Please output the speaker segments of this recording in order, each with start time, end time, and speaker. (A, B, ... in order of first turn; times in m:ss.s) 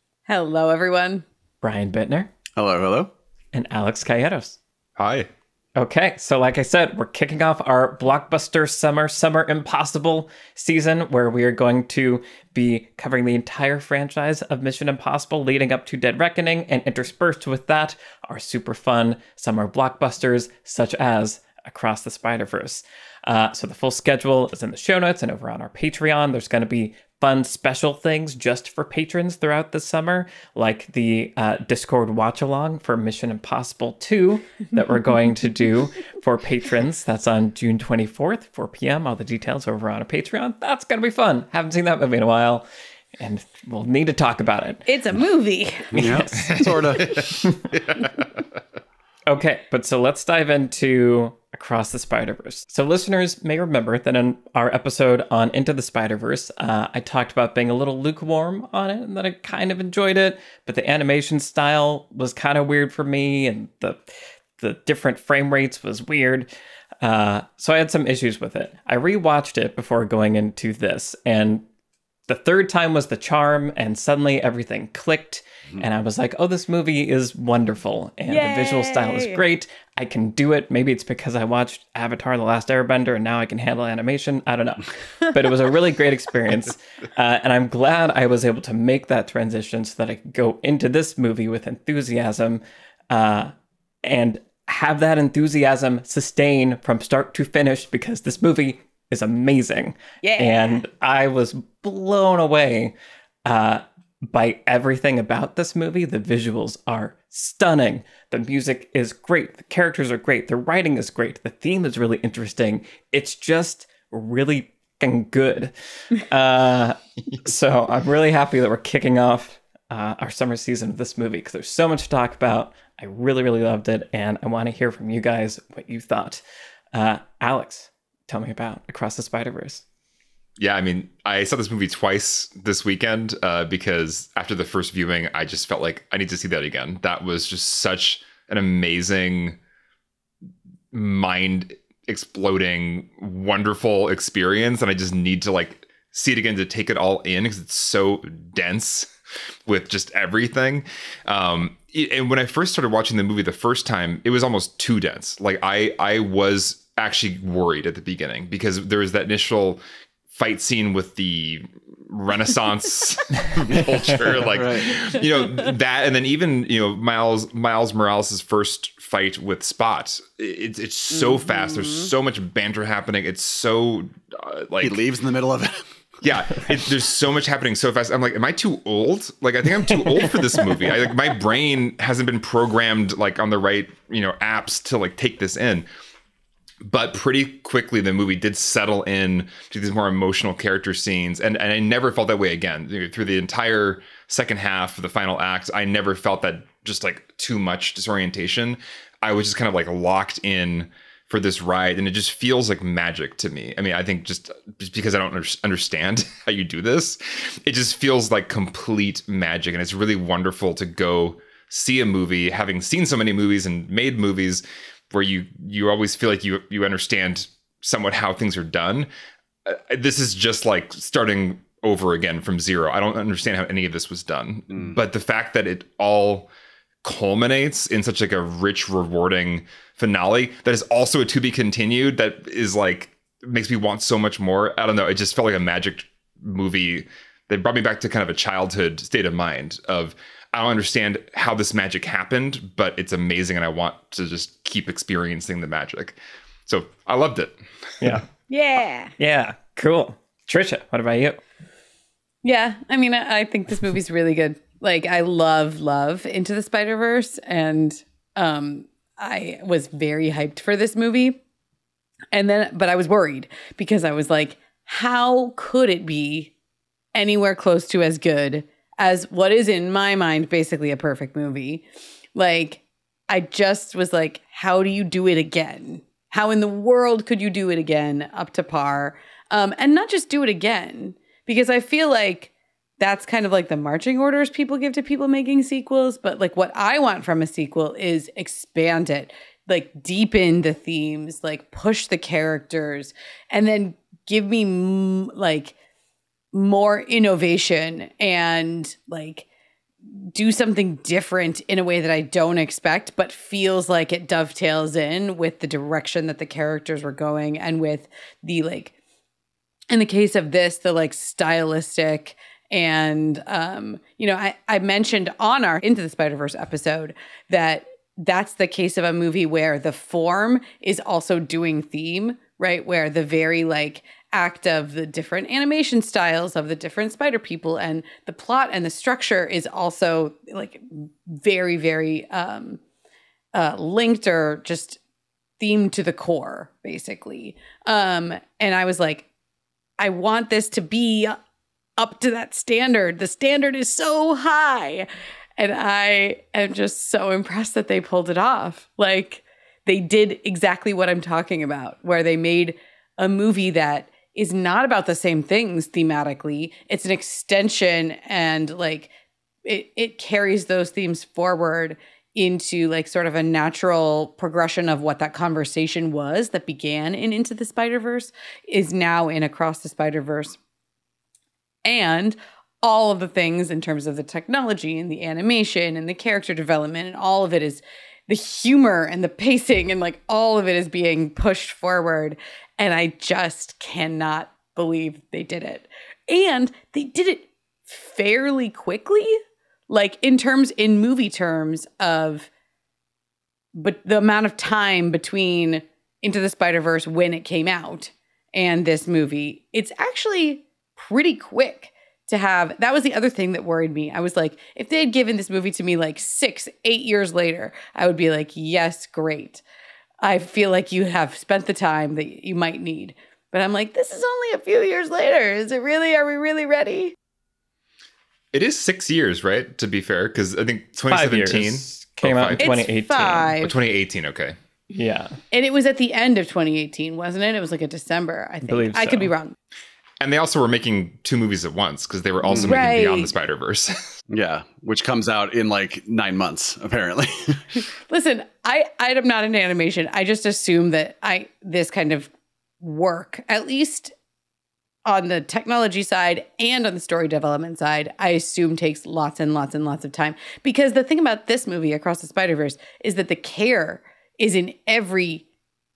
0:00.3-0:01.2 A
0:01.6-0:02.3 B
0:02.6-0:03.1 C
0:03.5-0:04.6 B
0:05.0-0:05.3 D
0:05.8-0:42.6 B
0:43.2-0:44.9 B
0:44.9-0:45.9 A
0:45.9-0:47.6 B
0:45.9-0:47.4 C
0:46.5-0:48.1 D
0:49.3-1:04.0 B
1:04.6-1:06.5 B
1:07.0-1:11.6 B
1:12.3-1:33.5 B
1:18.3-1:19.4 A
1:34.0-1:42.9 B
1:40.2-1:40.8 A
1:43.4-2:06.4 B
2:06.9-2:09.8 B
2:10.6-2:19.6 D
2:20.9-2:29.1 D
2:29.7-2:39.8 D
2:40.3-2:55.0 D
2:43.7-2:45.0 C
2:51.1-2:52.1 A
2:54.8-2:55.8 C
2:56.2-3:05.9 D
3:06.8-3:39.1 D
3:39.6-3:46.5 D
3:47.0-4:07.6 D
4:08.0-4:08.3 B
4:08.5-4:09.1 A
4:09.2-4:11.4 B
4:12.4-4:21.4 A
4:22.3-4:26.5 A
4:27.1-4:55.7 A
4:56.5-4:59.5 A
5:00.3-5:08.9 A
5:09.9-5:32.8 A
5:33.5-5:35.0 A
5:35.6-5:39.2 A
5:40.0-5:41.4 A
5:42.0-5:59.1 A
5:59.6-6:10.6 A
6:11.8-6:32.5 A
6:33.8-6:49.6 A
6:50.2-6:57.1 A
6:58.5-7:02.8 D
7:01.1-7:03.6 B
7:02.6-7:03.7 A
7:03.6-7:04.6 D
7:04.9-7:05.4 B
7:05.5-7:09.6 A
7:08.6-7:09.3 B
7:10.2-7:14.2 D
7:12.5-7:12.8 C
7:12.5-7:13.3 A
7:14.3-7:17.8 C
7:18.1-7:24.1 A
7:25.0-7:35.4 A